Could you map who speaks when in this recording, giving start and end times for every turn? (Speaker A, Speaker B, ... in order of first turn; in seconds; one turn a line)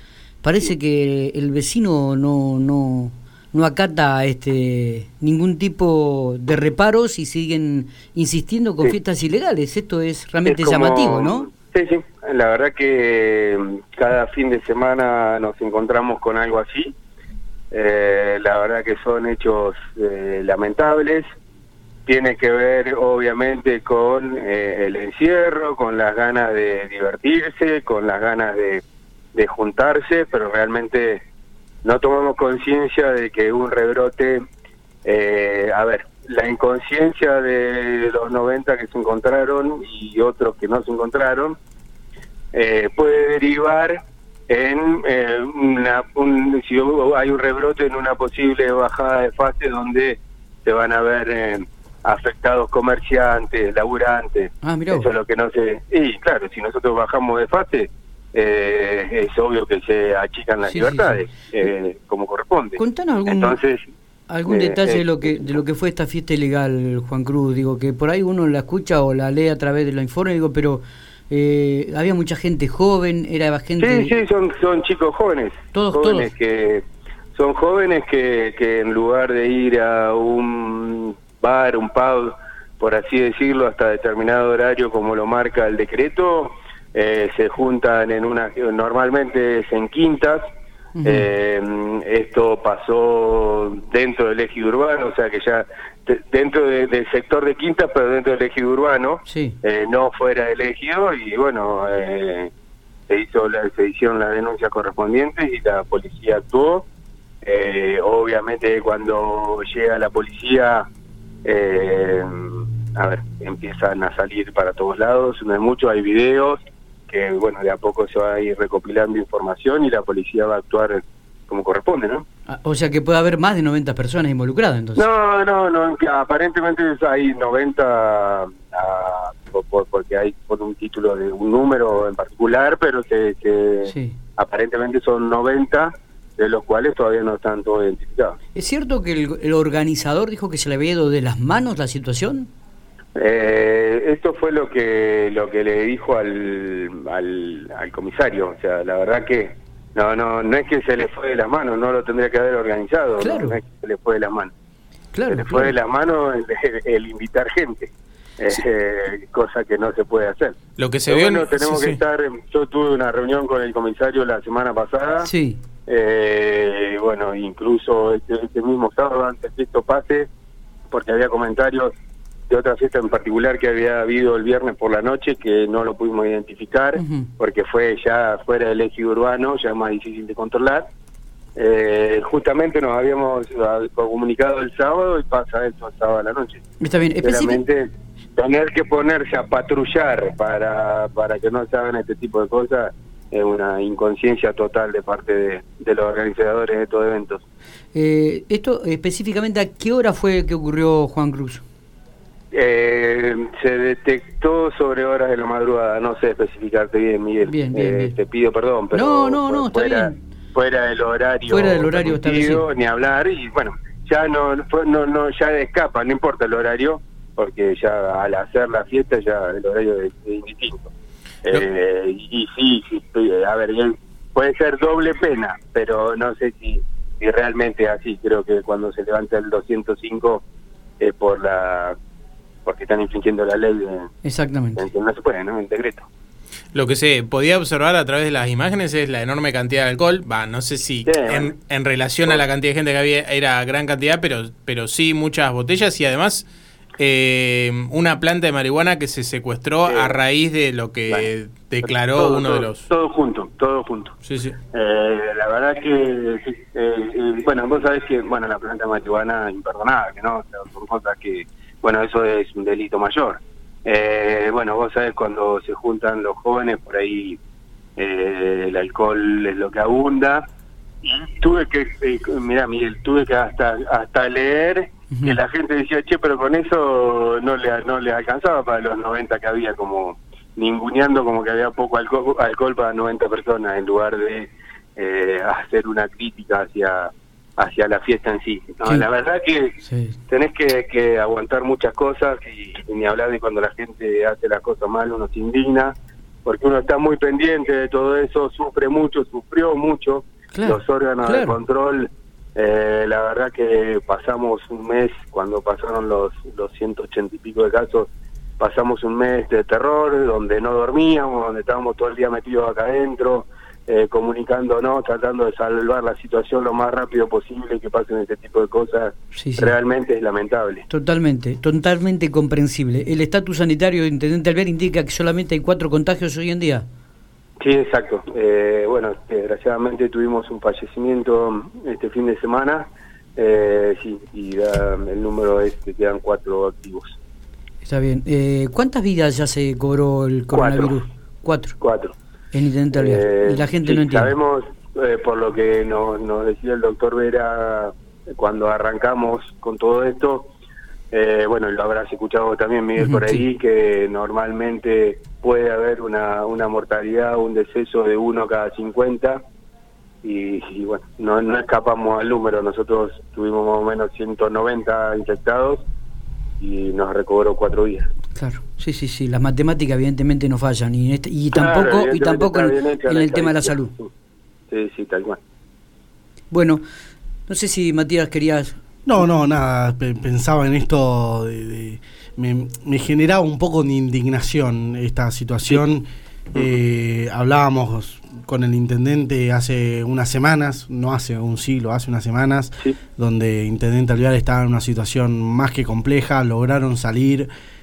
Speaker A: 0.4-11.5
Speaker B: 10.4-16.9
Speaker B: 17.7-21.2
Speaker B: 22.1-28.8
Speaker B: 29.3-31.2
Speaker B: 31.8-34.4
Speaker B: 35.0-41.6
Speaker B: 42.5-63.8
Speaker A: 54.6-55.1
Speaker A: 60.6-61.2
Speaker A: 62.8-63.6
Speaker A: 64.3-74.2
Speaker B: 64.5-65.4
Speaker B: 73.8-90.4
Speaker A: 75.7-76.3
Speaker A: 90.9-91.2
Speaker B: 91.0-102.5
Speaker A: 99.2-99.5
Speaker B: 103.1-106.9
Speaker B: 107.4-110.9
Speaker B: 111.4-122.2
Speaker A: 122.5-125.1
Speaker B: 125.0-138.3
Speaker A: 133.8-134.2
Speaker A: 138.5-142.5
Speaker B: 143.2-154.5
Speaker A: 153.2-153.6
Speaker A: 155.1-155.7
Speaker B: 155.3-160.6
Speaker C: 160.8-162.0
Speaker B: 161.1-165.3
Speaker A: 165.2-165.6
Speaker B: 165.9-170.3
Speaker B: 170.9-171.9
Speaker B: 172.5-180.8
Speaker A: 176.9-177.3
Speaker B: 181.6-186.6
Speaker A: 186.8-187.6
Speaker B: 187.2-197.4
Speaker A: 197.9-201.6
Speaker B: 202.5-220.9
Speaker A: 207.4-208.1
Speaker A: 208.9-210.2
Speaker A: 211.5-212.6
Speaker B: 221.4-230.4
Speaker B: 231.0-231.9
Speaker B: 232.7-234.1
Speaker A: 234.2-234.8
Speaker B: 234.8-236.1
Speaker C: 236.7-246.5
Speaker B: 241.0-241.5
Speaker C: 247.0-252.9
Speaker B: 249.9-250.2
Speaker B: 251.8-254.2
Speaker C: 254.2-254.6
Speaker B: 254.7-267.4
Speaker B: 268.0-270.4
Speaker B: 271.0-289.8
Speaker A: 275.1-275.4
Speaker A: 289.8-290.2
Speaker B: 290.3-320.8
Speaker A: 300.5-301.6
Speaker A: 319.3-319.8
Speaker A: 320.9-326.8
Speaker B: 327.6-337.2
Speaker A: 337.8-341.8
Speaker B: 340.5-341.0
Speaker B: 341.8-342.1
Speaker A: 342.5-344.3
Speaker B: 342.9-350.5
Speaker B: 351.1-359.4
Speaker A: 353.0-353.4
Speaker B: 360.2-365.8
Speaker B: 366.6-368.1
Speaker A: 368.3-373.9
Speaker B: 371.5-374.1
Speaker B: 374.7-375.4
Speaker A: 376.5-376.8
Speaker A: 377.5-378.8
Speaker D: 379.0-397.5